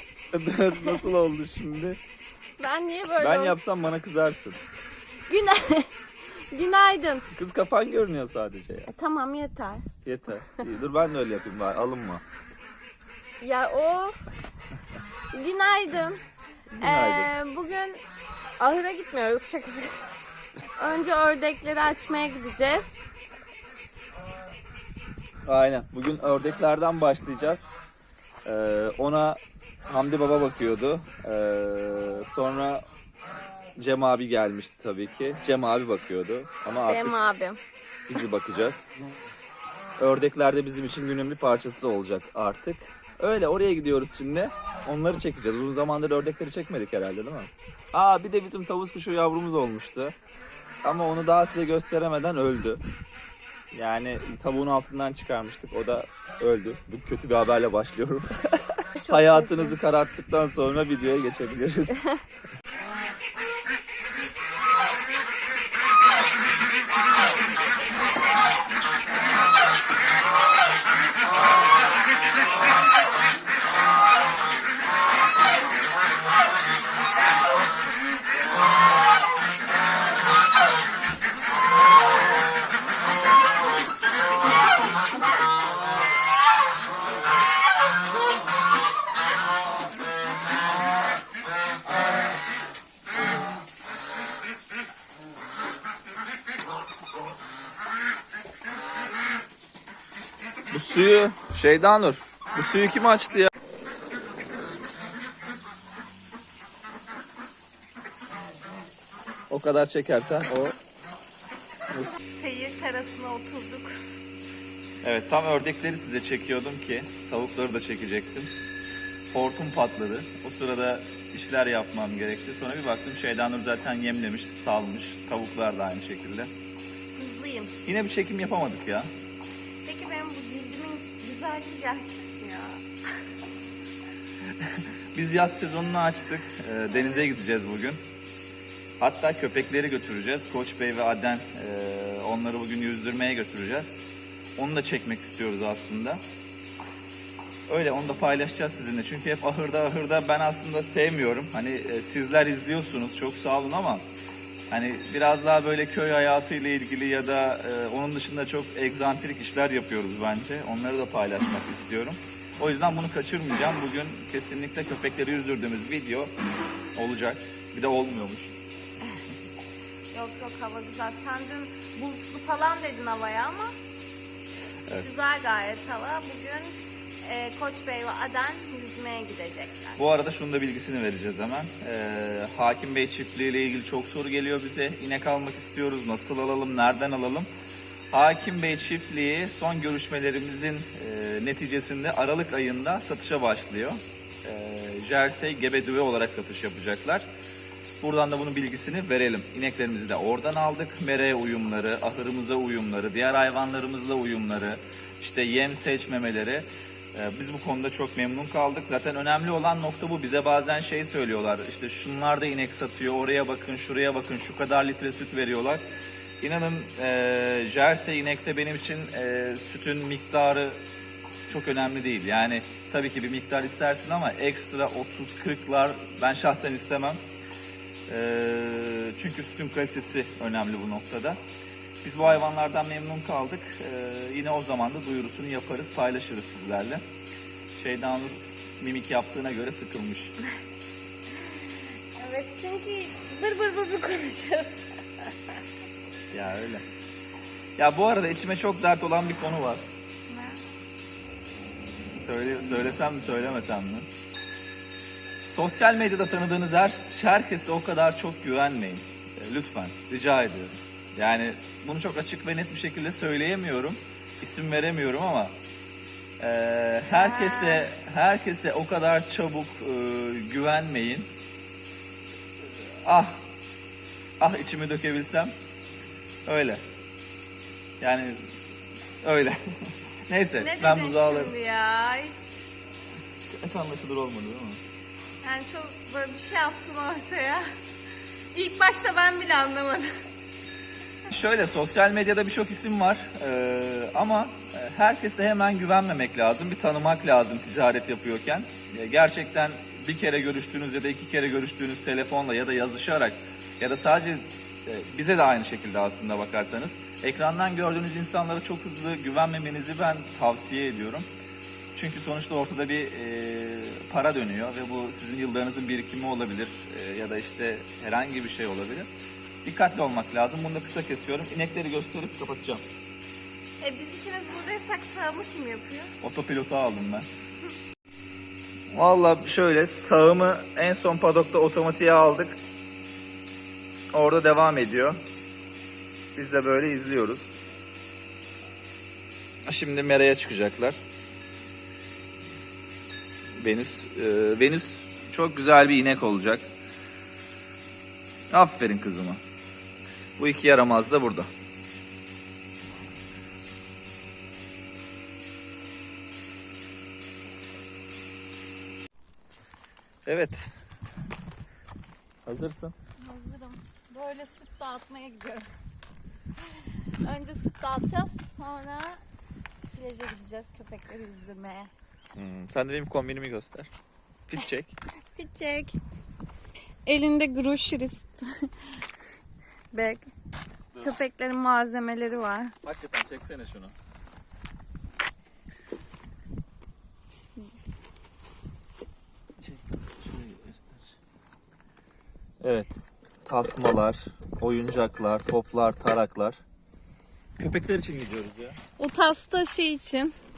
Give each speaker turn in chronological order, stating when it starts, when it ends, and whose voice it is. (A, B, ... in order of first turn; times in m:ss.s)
0:00.3-0:02.0 A
0:02.6-0:03.6 B
0:03.2-0:04.6 A
0:05.3-0:05.9 B
0:06.5-0:07.3 B
0:07.4-0:08.9 A
0:08.9-0:09.8 B
0:10.0-0:12.2 A
0:13.4-0:14.2 B
0:15.3-0:16.2 B
0:16.7-0:17.3 A
0:16.8-0:18.0 B
0:18.6-0:20.0 B
0:20.8-0:23.0 B
0:25.5-0:27.7 A
0:28.4-0:32.8 A
0:33.8-0:37.2 A
0:36.8-0:37.6 B
0:38.1-0:38.9 A
0:40.0-0:50.2 A
0:50.8-0:52.8 A
0:53.7-1:02.0 A
0:59.0-0:59.8 B
1:40.7-1:43.5 A
1:49.5-1:50.8 A
1:51.9-1:52.2 A
1:52.3-1:54.0 B
1:55.0-1:58.5 A
1:59.3-2:06.5 A
2:07.2-2:07.8 B
2:07.8-2:09.1 A
2:09.8-2:12.8 B
2:14.6-2:18.0 A
2:19.0-2:24.0 A
2:24.6-2:26.2 A
2:27.7-2:34.0 A
2:34.7-2:46.3 A
2:47.0-2:48.5 A
2:50.1-2:53.7 B
2:55.0-3:00.0 B
3:00.0-3:07.5 A
3:08.1-3:17.3 A
3:18.0-3:35.8 A
3:36.4-3:40.8 A
3:41.5-3:47.2 A
3:48.1-3:51.4 A
3:52.0-3:57.0 A
3:57.8-4:00.3 A
4:02.2-4:04.9 B
4:06.3-4:06.9 A
4:07.8-4:09.8 A
4:10.3-4:10.6 B
4:12.2-4:14.1 A
4:15.4-4:25.6 A
4:26.4-4:31.3 A
4:27.1-4:27.9 B
4:33.0-4:33.4 A
4:34.4-4:35.5 A
4:36.5-4:36.8 A
4:38.0-4:38.5 A
4:39.2-4:39.6 A
4:40.3-4:41.5 A
4:40.6-4:42.6 B
4:43.5-4:44.8 A
4:45.4-4:47.6 B
4:48.5-4:50.1 B
4:51.3-5:11.3 A
5:12.0-5:19.1 A
5:19.6-5:22.8 A
5:23.8-5:26.1 B
5:26.2-5:27.3 A
5:28.9-5:32.6 A
5:34.1-5:35.2 A
5:36.4-5:37.4 A
5:39.7-5:41.0 A
5:43.6-5:46.7 A
5:48.5-5:49.4 A
5:50.4-5:51.5 A
6:00.3-6:00.7 A
6:02.4-6:02.9 A
6:03.2-6:05.7 B
6:07.2-6:09.2 B
6:10.0-6:11.9 B
6:12.4-6:13.9 A
6:14.5-6:15.0 A
6:15.4-6:16.0 B
6:17.1-6:18.9 B
6:19.9-6:20.3 B
6:21.0-6:22.7 B
6:22.8-6:23.9 A
6:30.2-6:31.0 A
6:32.6-6:36.6 A
6:37.6-6:38.8 A
6:39.0-6:40.3 B